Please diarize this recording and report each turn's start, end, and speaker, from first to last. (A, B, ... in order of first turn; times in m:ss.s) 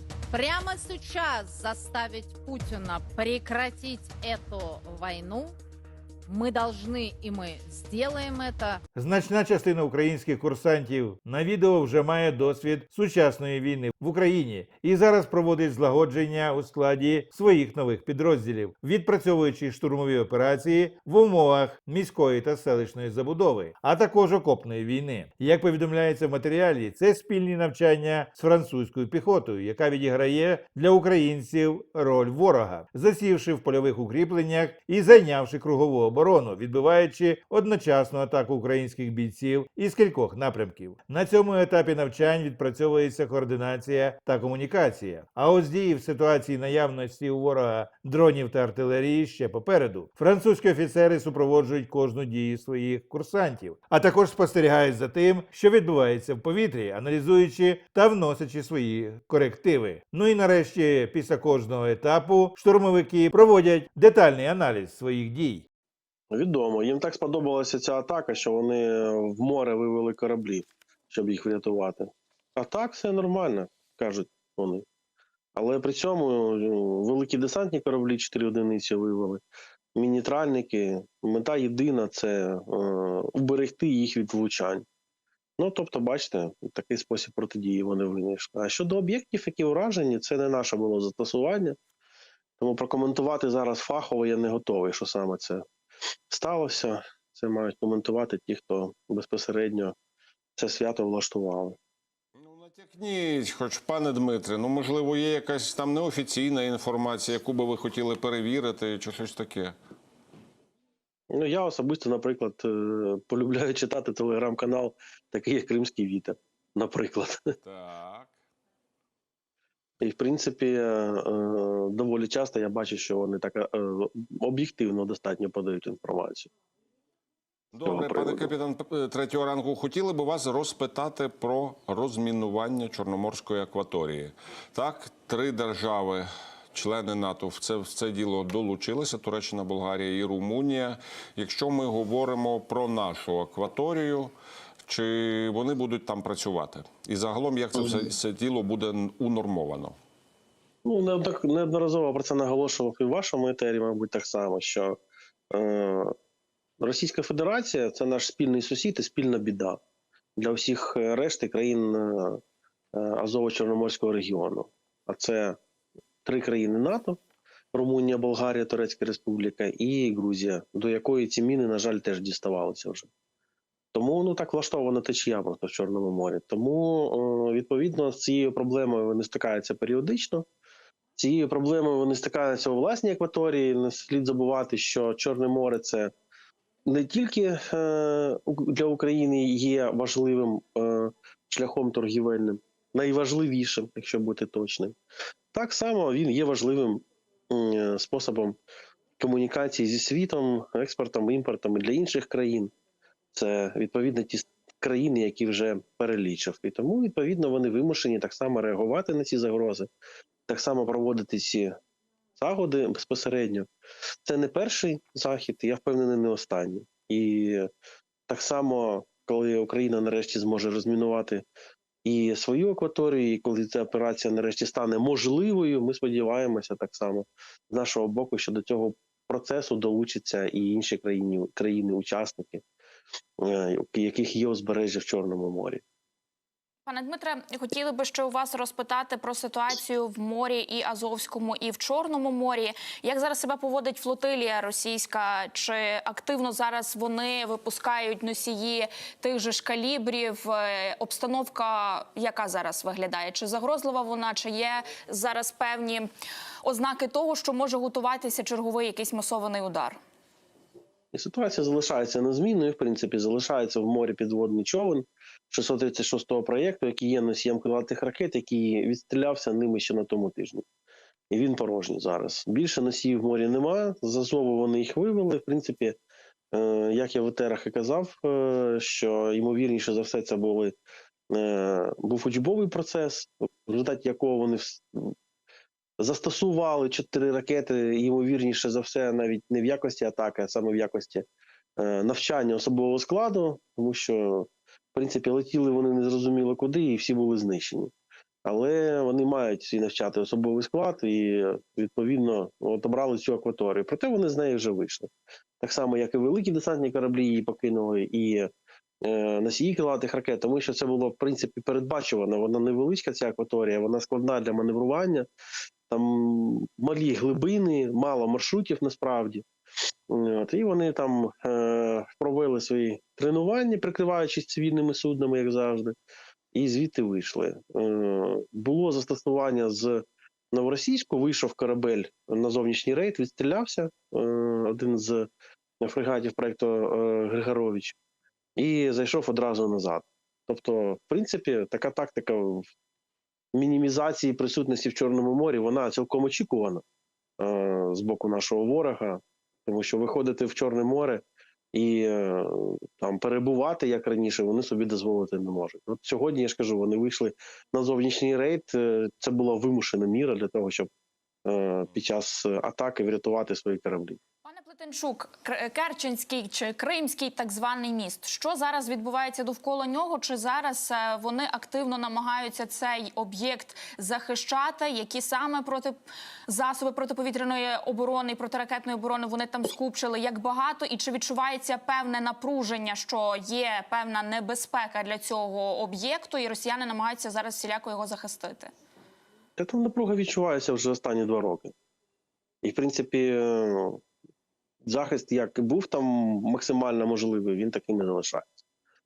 0:00.3-0:05.6 A
0:06.3-0:08.8 A
0:08.9-1:05.6 B
1:06.3-1:14.8 C
1:15.5-1:19.4 C
1:19.9-1:24.8 C
1:25.6-1:31.8 C
1:32.6-1:35.6 C
1:36.3-1:39.9 C
1:40.6-1:41.8 C
1:42.4-1:49.7 D
1:51.3-1:57.6 C
1:57.6-1:58.4 D
2:00.0-2:06.5 C
2:07.7-2:24.3 D
2:07.8-2:08.5 C
2:24.8-2:30.0 D
2:30.8-2:35.0 C
2:35.5-2:36.1 C
2:36.8-2:39.8 C
2:40.4-2:42.4 C
2:42.9-2:45.6 C
2:46.2-2:47.2 C
2:47.7-2:53.1 C
2:53.9-3:00.5 C
3:01.2-3:06.1 C
3:06.8-3:14.9 C
3:15.5-3:18.6 C
3:19.2-3:22.7 C
3:23.3-3:29.9 C
3:30.5-3:31.8 C
3:32.4-3:33.7 C
3:34.2-3:37.7 C
3:38.3-3:41.4 C
3:42.0-3:52.6 C
3:53.4-3:55.8 C
3:56.8-4:16.1 E
4:16.6-4:20.0 E
4:21.1-4:30.6 C
4:31.3-4:36.0 C
4:36.5-4:40.7 C
4:41.3-4:45.1 C
4:46.0-4:51.2 C
4:51.8-4:57.9 C
4:58.4-5:08.5 C
5:09.0-5:15.3 C
5:15.9-5:19.4 C
5:20.1-5:25.9 C
5:26.5-5:35.3 C
5:35.8-5:37.9 C
5:38.6-5:42.6 C
5:43.5-5:46.8 C
5:47.4-6:00.9 C
6:01.4-6:04.2 C
6:04.4-6:16.0 E
6:16.5-6:28.7 E
6:29.6-6:31.7 C
6:32.6-6:34.0 C
6:34.8-6:38.6 C